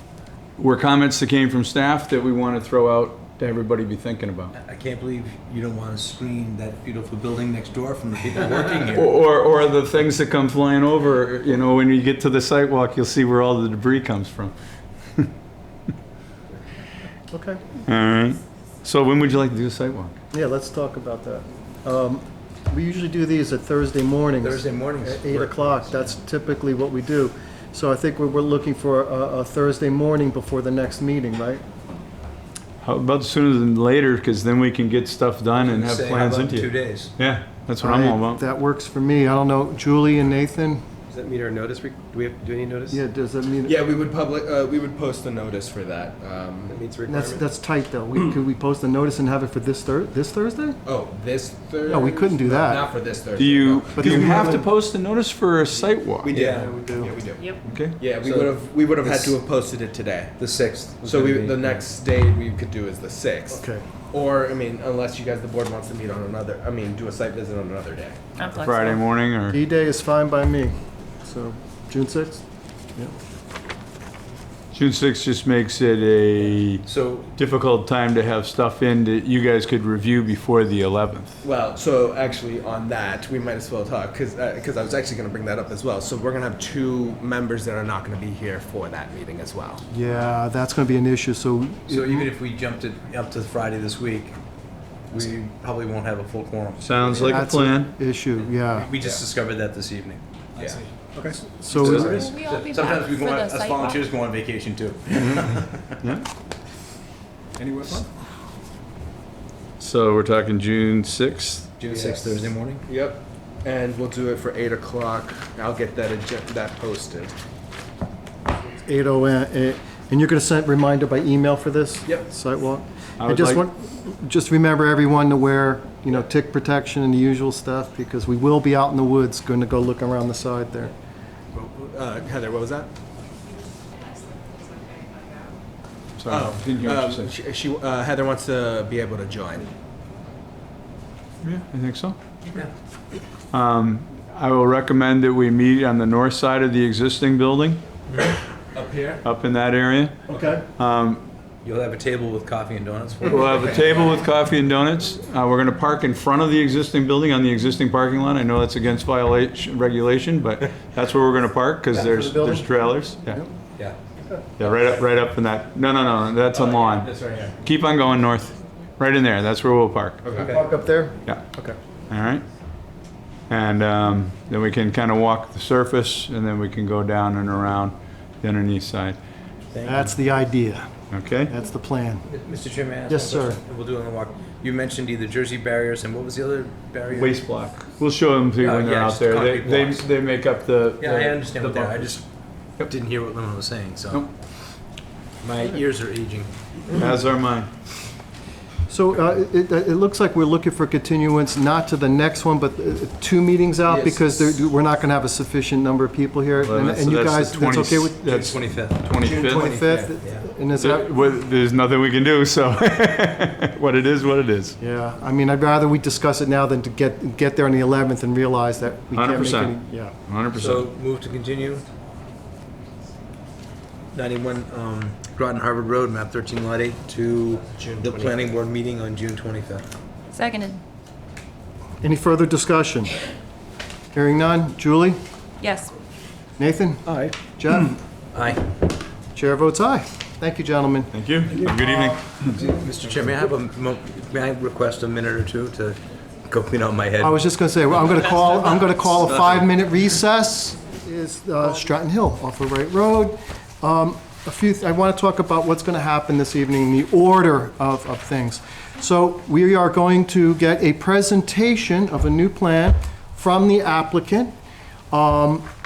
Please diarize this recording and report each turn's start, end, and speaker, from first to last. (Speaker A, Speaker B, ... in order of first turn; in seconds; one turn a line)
Speaker A: 0.6-4.5
Speaker B: 4.5-9.2
Speaker A: 8.9-14.6
Speaker C: 17.3-17.6
Speaker A: 17.9-20.2
Speaker C: 20.3-31.6
Speaker B: 24.4-26.0
Speaker A: 32.8-38.4
Speaker B: 35.6-37.1
Speaker C: 37.8-40.8
Speaker D: 41.1-43.0
Speaker C: 42.9-43.8
Speaker E: 43.6-46.8
Speaker D: 46.7-47.4
Speaker C: 47.1-50.8
Speaker E: 50.8-54.6
Speaker C: 51.9-52.9
Speaker A: 53.4-56.3
Speaker C: 53.9-54.7
Speaker E: 56.2-60.4
Speaker B: 56.3-56.7
Speaker C: 56.3-57.1
Speaker A: 57.6-58.0
Speaker B: 58.2-59.3
Speaker B: 60.4-61.8
Speaker E: 61.0-68.3
Speaker C: 63.5-63.9
Speaker F: 68.4-69.0
Speaker A: 68.5-69.6
Speaker C: 69.5-72.4
Speaker A: 74.7-76.8
Speaker B: 76.8-77.3
Speaker A: 77.4-81.4
Speaker E: 81.4-89.8
Speaker C: 89.9-92.3
Speaker B: 91.9-94.4
Speaker B: 95.1-97.4
Speaker A: 96.8-97.9
Speaker C: 97.1-98.9
Speaker B: 98.7-100.9
Speaker E: 99.0-99.2
Speaker E: 100.6-100.8
Speaker C: 101.5-102.3
Speaker A: 101.7-102.3
Speaker B: 101.7-105.9
Speaker F: 102.2-104.1
Speaker A: 106.0-106.3
Speaker A: 109.8-111.7
Speaker B: 111.8-112.8
Speaker E: 111.9-117.3
Speaker C: 118.8-130.9
Speaker A: 123.2-123.6
Speaker E: 131.5-132.9
Speaker A: 136.2-137.3
Speaker E: 136.3-139.7
Speaker A: 141.4-142.2
Speaker A: 143.5-147.8
Speaker E: 148.7-149.2
Speaker A: 149.2-151.2
Speaker C: 150.3-150.6
Speaker B: 151.6-154.0
Speaker A: 153.2-163.4
Speaker E: 153.5-154.0
Speaker C: 161.9-162.8
Speaker A: 164.6-167.1
Speaker B: 164.6-165.1
Speaker B: 166.6-167.5
Speaker A: 167.6-170.2
Speaker E: 170.2-170.5
Speaker B: 170.3-170.7
Speaker C: 170.4-171.8
Speaker A: 172.1-172.4
Speaker A: 173.5-179.2
Speaker B: 179.7-180.1
Speaker C: 179.8-180.9
Speaker A: 181.1-181.5
Speaker C: 181.5-182.2
Speaker B: 182.2-187.4
Speaker C: 183.1-183.6
Speaker A: 187.1-192.2
Speaker B: 188.6-190.1
Speaker B: 191.0-192.2
Speaker B: 192.8-194.3
Speaker B: 195.4-196.5
Speaker A: 196.9-197.7
Speaker C: 198.9-208.2
Speaker A: 206.6-209.7
Speaker B: 208.2-210.4
Speaker C: 209.2-211.2
Speaker E: 209.6-210.1
Speaker A: 210.8-214.8
Speaker C: 214.8-220.2
Speaker A: 219.1-219.8
Speaker A: 220.3-220.9
Speaker B: 220.6-221.9
Speaker B: 224.1-229.8
Speaker E: 227.7-228.5
Speaker F: 230.3-230.8
Speaker C: 232.0-233.2
Speaker C: 234.1-235.2
Speaker F: 235.6-235.9
Speaker C: 236.6-238.0
Speaker B: 238.3-238.6
Speaker C: 239.3-241.1
Speaker A: 241.1-242.6
Speaker B: 242.6-247.4
Speaker C: 247.2-264.5
Speaker B: 248.3-249.6
Speaker C: 265.1-265.7